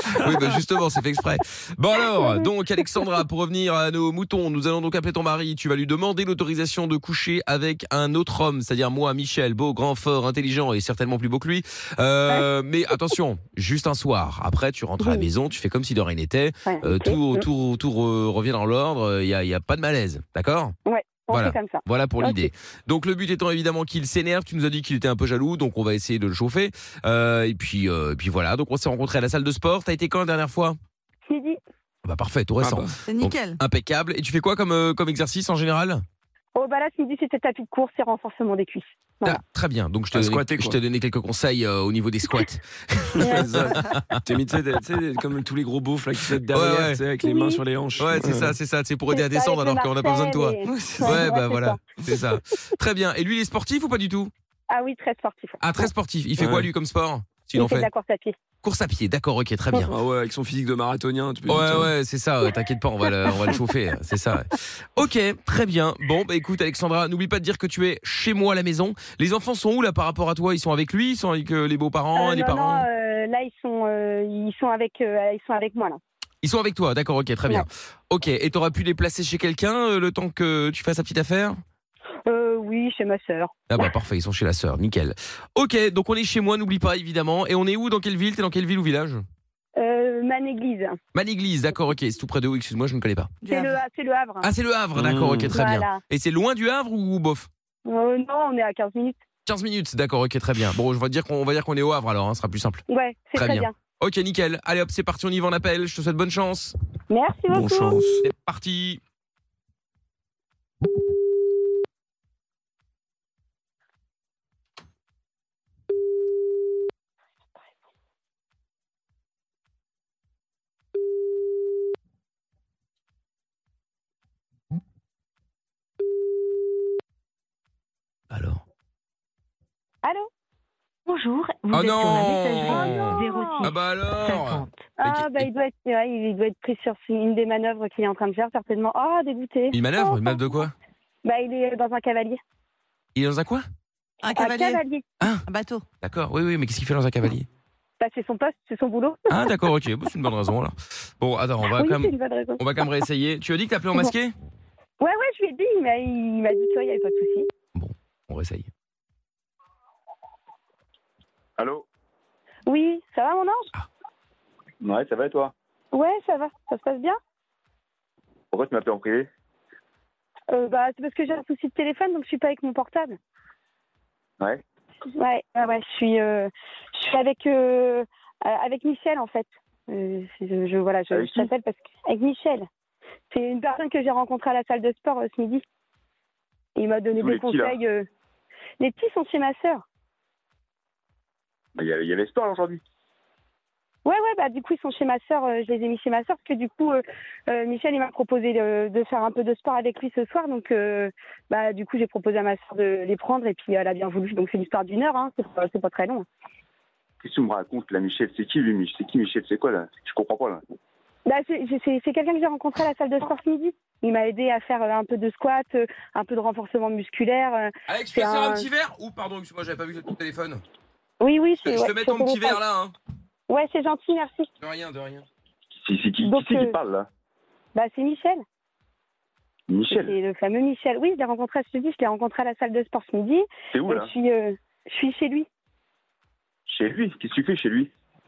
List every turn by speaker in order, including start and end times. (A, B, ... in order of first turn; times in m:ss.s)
0:00.1-0:20.7 A
0:02.2-0:02.5 B
0:16.6-0:17.4 B
0:20.8-0:22.5 B
0:21.3-0:30.8 A
0:31.3-0:31.6 B
0:32.0-0:36.0 A
0:32.6-0:33.0 C
0:33.0-0:33.6 D
0:36.6-0:39.4 B
0:39.2-0:44.2 A
0:40.1-0:40.8 C
0:43.2-0:48.6 C
0:43.2-0:43.5 B
0:46.5-0:47.0 A
0:47.2-0:47.6 B
0:48.0-0:54.3 A
0:49.1-0:51.8 B
0:50.6-0:51.3 C
0:54.7-0:55.6 B
0:55.6-0:57.9 A
0:56.4-0:56.7 C
0:57.6-0:58.4 B
0:58.6-1:00.0 A
0:59.8-1:01.9 C
1:01.5-1:12.9 A
1:12.2-1:16.0 B
1:16.4-1:21.6 A
1:22.3-1:23.6 B
1:23.7-1:29.2 A
1:29.8-1:31.0 B
1:31.1-1:33.4 A
1:33.4-1:33.8 D
1:33.5-1:34.5 B
1:34.4-1:37.5 A
1:34.9-1:35.6 C
1:35.5-1:36.0 B
1:37.8-1:39.2 B
1:39.4-1:46.7 A
1:42.9-1:43.7 B
1:47.1-1:48.0 B
1:47.5-1:48.2 C
1:48.2-1:49.0 A
2:08.3-2:08.6 A
2:10.0-2:10.3 B
2:11.0-2:14.9 E
2:11.7-2:15.5 A
2:12.6-2:13.7 B
2:15.0-2:20.6 B
2:19.7-2:20.7 A
2:21.2-2:22.4 B
2:23.1-2:23.6 A
2:24.2-2:24.8 D
2:24.3-2:25.0 B
2:25.4-2:25.8 D
2:26.0-2:27.5 A
2:28.0-2:29.4 B
2:29.3-2:34.3 A
2:31.8-2:32.6 B
2:35.0-2:37.5 B
2:37.7-2:38.7 A
2:41.6-2:41.8 F
2:42.7-2:43.7 B
2:44.8-2:45.5 F
2:45.9-2:47.2 B
2:48.5-2:49.3 F
2:50.5-2:53.2 B
2:55.1-3:02.6 B
3:01.1-3:01.5 F
3:03.3-3:05.6 B
3:06.8-3:08.1 B
3:07.2-3:07.8 F
3:08.8-3:09.8 B
3:11.8-3:12.8 F
3:14.0-3:26.2 B
3:27.2-3:30.6 F
3:31.3-3:38.6 B
3:37.9-3:40.6 A
3:41.2-3:42.6 B
3:41.6-3:42.9 A
3:43.5-3:44.5 B
3:44.6-3:45.2 A
3:45.7-3:47.1 F
3:46.2-3:46.7 B
3:47.8-3:48.4 B
3:49.7-3:50.2 F
3:49.9-3:55.5 B
3:53.7-3:54.1 F
3:56.7-3:57.9 F